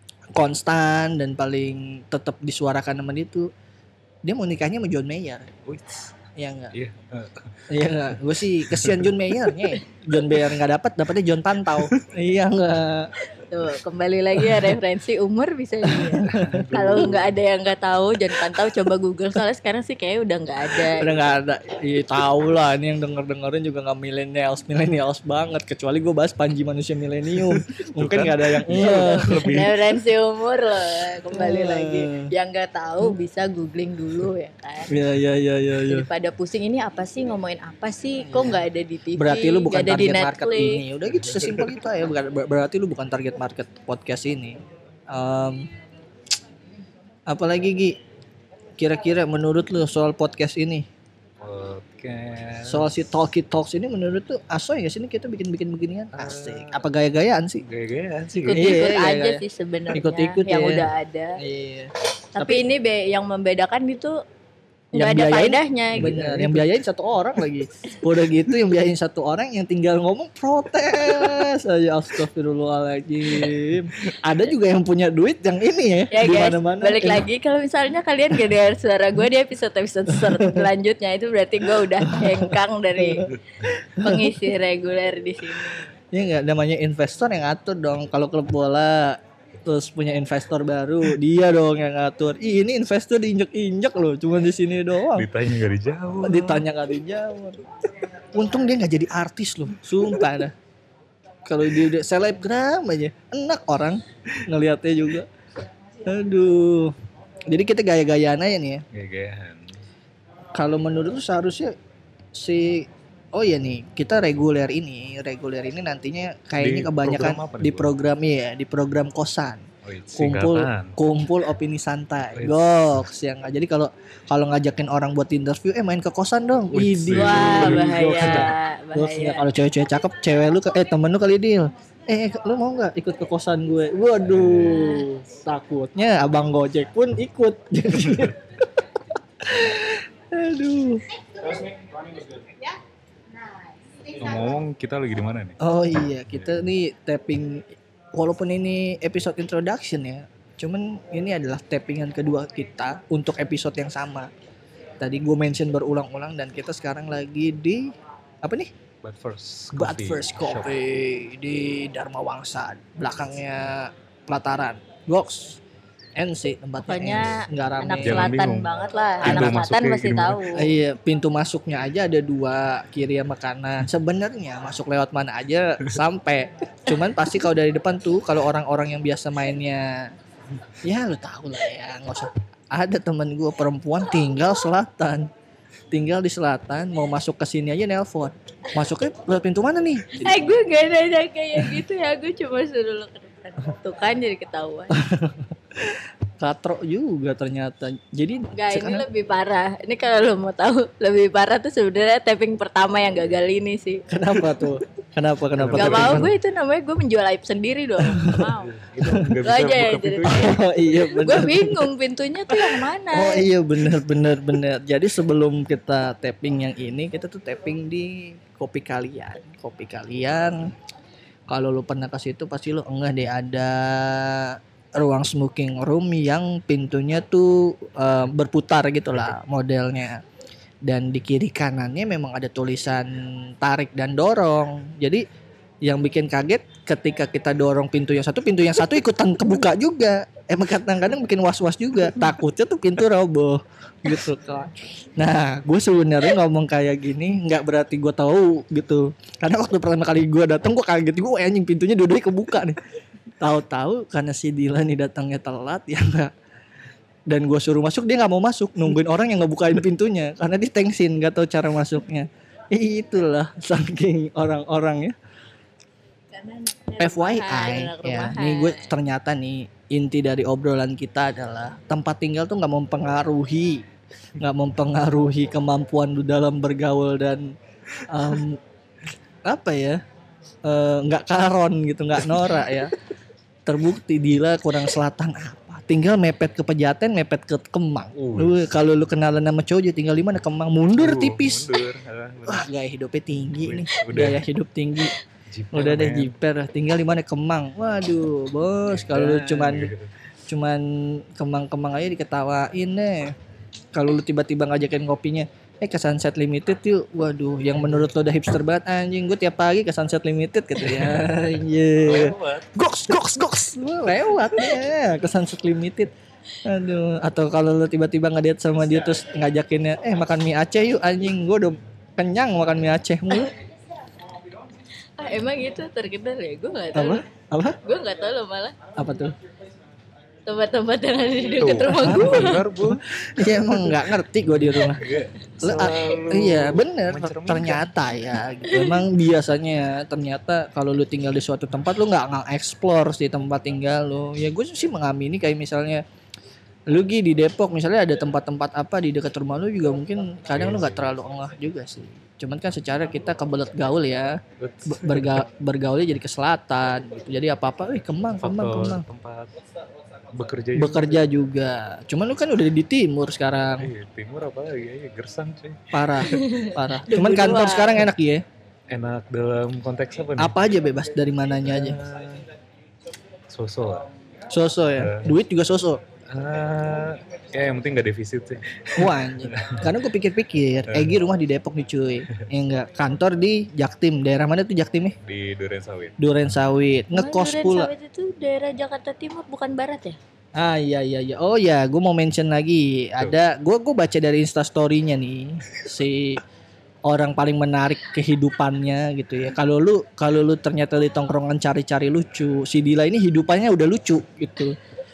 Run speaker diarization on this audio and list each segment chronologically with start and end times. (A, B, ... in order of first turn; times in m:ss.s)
0:00.3-0:03.5 A
0:04.2-0:05.5 A
0:05.6-0:06.2 B
0:06.4-0:06.7 A
0:06.7-0:09.4 B
0:07.7-0:13.1 A
0:11.7-0:12.0 B
0:13.4-0:21.2 C
0:14.4-0:14.7 A
0:15.9-0:17.2 A
0:16.3-0:17.4 B
0:21.0-0:29.5 A
0:27.4-0:29.8 B
0:28.7-0:34.9 C
0:31.3-0:32.3 A
0:34.9-0:36.0 A
0:35.8-0:40.8 C
0:38.3-0:45.7 A
0:41.1-0:41.7 B
0:47.3-0:48.0 A
0:48.8-0:50.8 A
0:51.4-0:53.0 B
0:52.6-0:57.6 A
0:56.1-0:56.9 B
0:57.6-0:58.8 B
0:58.4-1:01.4 C
0:58.5-1:00.8 A
1:01.4-1:02.6 A
1:02.3-1:04.2 C
1:04.9-1:17.2 A
1:04.9-1:06.2 C
1:05.9-1:06.7 B
1:16.1-1:23.3 C
1:20.1-1:20.6 A
1:22.0-1:24.4 A
1:24.0-1:25.9 C
1:26.1-1:35.3 A
1:35.1-1:36.7 B
1:36.2-1:37.6 A
1:38.3-1:40.5 A
1:41.4-1:45.3 A
1:46.0-1:46.9 A
1:47.5-1:48.8 A
1:48.9-1:49.8 B
1:50.6-1:51.8 A
1:52.3-2:18.4 A
1:56.6-1:58.0 B
1:59.8-2:01.0 B
2:02.3-2:02.7 B
2:06.7-2:08.5 B
2:07.1-2:09.4 C
2:14.2-2:14.9 B
2:14.7-2:15.0 C
2:19.4-2:21.5 A
2:24.1-2:25.6 B
2:25.6-2:34.3 A
2:26.3-2:26.6 B
2:35.0-2:37.9 A
2:38.4-2:38.7 A
2:39.0-2:40.7 B
2:39.7-2:45.6 A
2:46.2-2:48.4 A
2:46.8-2:50.7 C
2:48.0-2:50.4 B
2:50.5-3:00.1 A
3:00.8-3:05.3 A
3:05.9-3:10.6 A
3:10.1-3:15.0 C
3:14.9-3:19.0 A
3:18.5-3:24.0 C
3:24.1-3:26.3 A
3:25.6-3:26.3 B
3:25.7-3:28.7 C
3:28.2-3:28.4 A
3:28.5-3:30.6 B
3:29.0-3:29.3 A
3:29.4-3:33.5 C
3:30.4-3:31.9 A
3:32.6-3:40.7 A
3:41.5-3:50.2 A
3:50.8-3:55.2 A
3:55.8-4:12.8 A
4:13.4-4:16.3 A
4:17.3-4:25.1 A
4:26.3-4:28.9 C
4:27.0-4:33.8 A
4:34.4-4:38.6 A
4:39.4-4:40.0 A
4:40.6-4:42.9 A
4:43.6-4:51.7 A
4:48.1-4:48.6 B
4:51.0-4:52.7 B
4:52.4-4:55.1 A
4:53.5-4:54.4 B
4:55.5-4:56.3 B
4:55.7-4:59.9 A
4:58.9-5:00.1 B
5:00.5-5:03.3 A
5:03.9-5:16.1 A
5:10.8-5:12.7 B
5:16.6-5:23.5 A
5:25.2-5:27.2 C
5:26.9-5:27.8 A
5:27.8-5:28.9 C
5:29.0-5:29.3 A
5:30.4-5:32.6 C
5:31.6-5:33.0 B
5:31.9-5:35.0 A
5:34.5-5:37.9 B
5:35.6-5:46.0 A
5:38.6-5:39.0 C
5:46.9-5:59.0 A
5:50.5-5:51.2 B
5:54.6-5:55.4 B
5:58.4-5:59.5 B
6:00.3-6:01.3 B
6:00.8-6:03.9 A
6:03.8-6:06.2 B
6:05.9-6:08.4 A
6:06.2-6:08.1 C
6:08.9-6:10.6 B
6:10.4-6:12.0 A
6:11.6-6:12.4 B
6:13.5-6:14.1 B
6:14.5-6:16.0 A
6:15.0-6:15.3 B
6:16.3-6:19.8 B
6:19.0-6:25.1 A
6:20.9-6:21.2 B
6:25.2-6:26.2 B
6:26.2-6:27.9 A
6:27.1-6:30.2 C
6:30.6-6:36.4 A
6:37.0-6:44.7 A